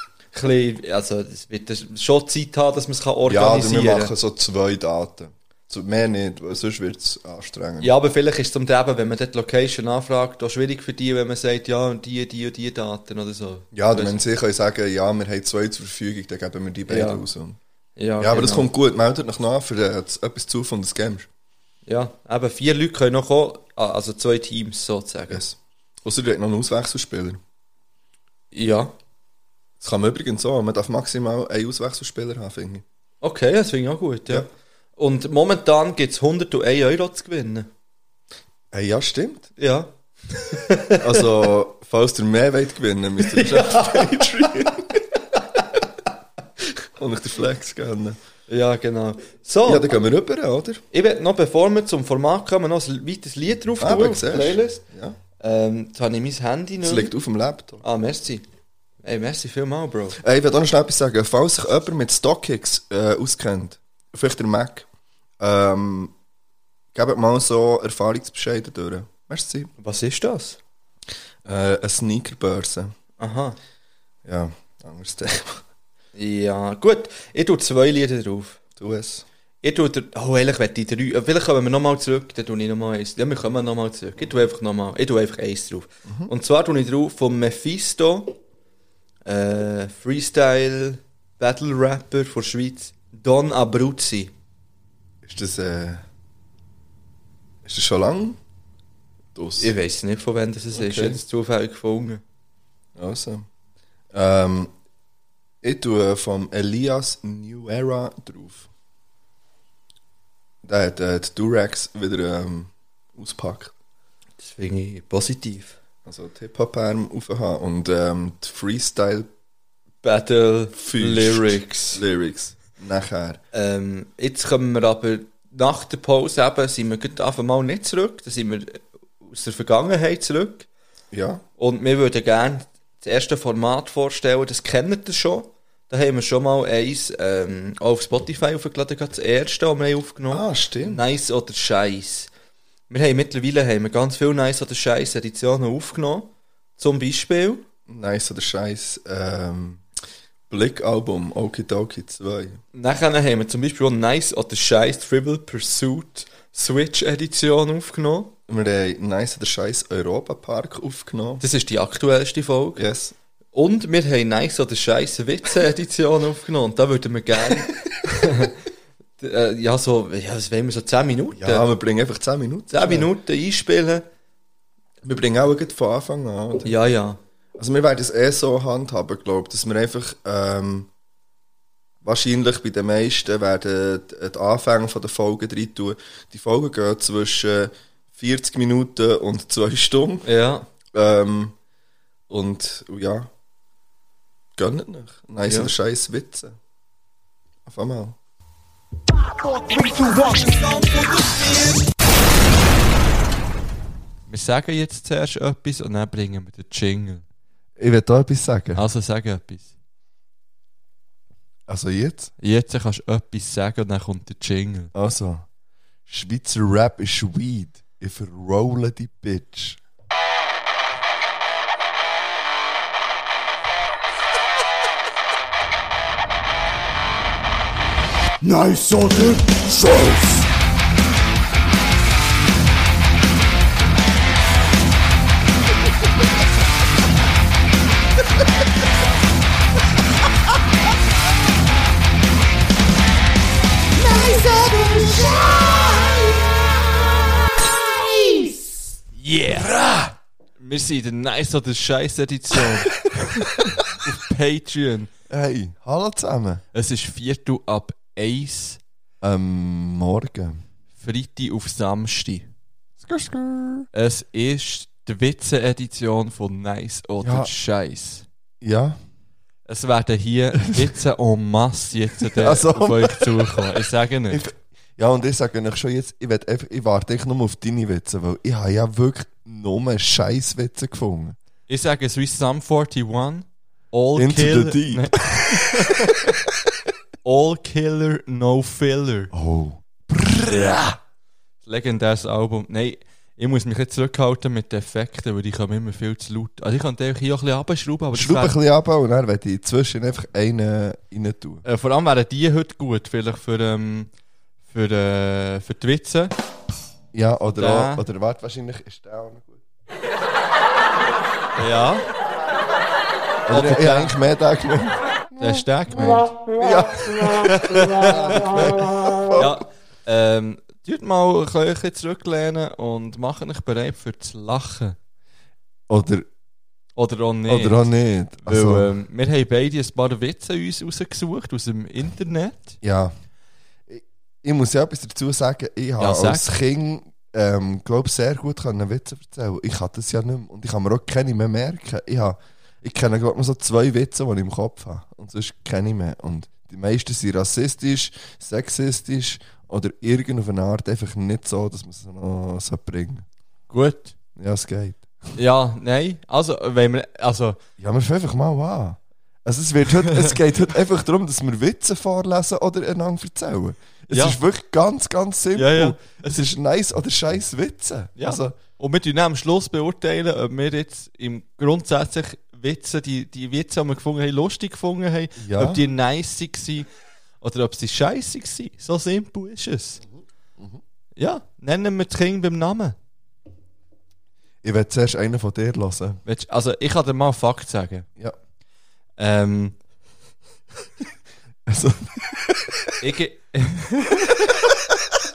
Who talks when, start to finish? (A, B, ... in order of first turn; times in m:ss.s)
0:00.3-0:04.1 A
0:03.2-0:07.9 B
0:07.8-0:14.2 A
0:13.7-0:17.6 B
0:16.9-0:17.2 A
0:18.0-0:18.7 A
0:18.2-0:21.3 B
0:21.8-0:25.4 A
0:25.3-0:27.4 B
0:28.5-0:28.9 A
0:29.8-0:32.8 B
0:33.2-0:37.7 A
0:38.7-0:39.5 B
0:39.6-0:41.2 A
0:41.0-0:45.0 B
0:43.2-0:44.7 A
0:46.9-0:48.2 B
0:48.5-0:49.9 A
0:49.6-0:50.8 B
0:50.9-0:54.8 A
0:53.8-0:55.2 B
0:55.4-0:57.1 A
0:56.8-0:57.8 B
0:57.8-0:58.4 A
0:59.0-1:00.2 A
1:00.2-1:04.9 B
1:05.4-1:06.1 B
1:06.9-1:09.7 B
1:09.8-1:10.6 A
1:11.4-1:12.9 B
1:13.2-1:13.6 A
1:14.2-1:15.6 B
1:16.1-1:18.6 A
1:18.8-1:19.2 B
1:19.6-1:28.4 A
1:26.0-1:26.3 B
1:29.2-1:34.3 A
1:35.2-1:36.0 B
1:37.6-1:38.4 B
1:39.3-1:39.7 B
1:39.6-1:42.2 A
1:40.7-1:41.2 B
1:43.0-1:43.5 B
1:44.1-1:44.7 B
1:45.6-1:48.7 B
1:50.6-1:53.7 B
1:54.4-1:55.8 A
1:56.0-1:59.3 B
2:00.0-2:02.0 A
2:00.8-2:03.4 B
2:03.5-2:10.7 A
2:11.1-2:11.4 B
2:11.6-2:22.3 A
2:20.3-2:21.0 B
2:22.9-2:27.6 A
2:27.9-2:29.8 B
2:30.5-2:32.6 B
2:32.7-2:38.3 A
2:38.5-2:41.4 B
2:41.4-2:42.8 A
2:42.8-2:43.1 B
2:43.5-2:48.5 A
2:49.2-2:51.7 A
2:51.3-2:53.1 B
2:52.7-2:54.0 A
2:55.0-2:56.7 B
2:56.6-2:57.2 A
2:57.6-3:00.9 B
3:02.0-3:10.3 B
3:10.2-3:10.7 A
3:10.9-3:11.5 B
3:12.3-3:13.3 B
3:14.6-3:16.6 B
3:15.4-3:15.7 A
3:17.6-3:18.2 B
3:19.4-3:21.8 C
3:24.3-3:27.2 A
3:27.8-3:28.8 B
3:28.8-3:29.7 A
3:31.7-3:32.3 B
3:32.4-3:34.9 A
3:34.9-3:35.4 B
3:36.1-3:39.8 B
4:04.1-4:05.7 C
4:08.2-4:08.5 C
4:09.1-4:09.7 A
4:09.5-4:10.1 B
4:10.6-4:15.1 A
4:15.3-4:16.6 B
4:16.7-4:18.8 A
4:19.2-4:20.6 B
4:21.0-4:22.5 A
4:23.0-4:23.9 B
4:23.9-4:28.2 A
4:27.2-4:27.5 B
4:28.6-4:29.0 B
4:29.6-4:34.4 A
4:32.2-4:41.4 B
4:41.7-4:46.3 A
4:44.2-4:46.0 B
4:47.2-4:49.3 A
4:49.3-4:51.0 B
4:50.4-4:50.9 A
4:51.6-4:58.6 A
4:58.1-5:01.6 B
5:01.6-5:04.1 A
5:04.7-5:06.3 A
5:07.1-5:09.6 B
5:07.5-5:08.0 A
5:11.6-5:12.0 A
5:13.4-5:19.6 B
5:13.5-5:14.2 A
5:15.4-5:16.3 A
5:17.4-5:25.0 A
5:25.9-5:26.3 B
5:27.0-5:27.9 A
5:27.5-5:28.9 B
5:28.4-5:32.8 A
5:32.8-5:33.1 B
5:33.9-5:53.2 B
5:36.0-5:36.5 A
5:53.7-5:54.1 A
5:54.4-5:55.4 B
5:55.4-5:57.6 A
5:57.8-6:08.6 B
6:00.0-6:00.4 A
6:04.1-6:04.4 A
6:05.5-6:06.4 A
6:08.2-6:16.9 A
6:15.4-6:15.8 B
6:17.4-6:20.0 A
6:20.0-6:20.8 B
6:21.2-6:23.0 A
6:24.6-6:26.2 B
6:26.2-6:28.1 A
6:29.2-6:29.8 A
6:31.7-6:32.9 B
6:33.0-6:34.4 A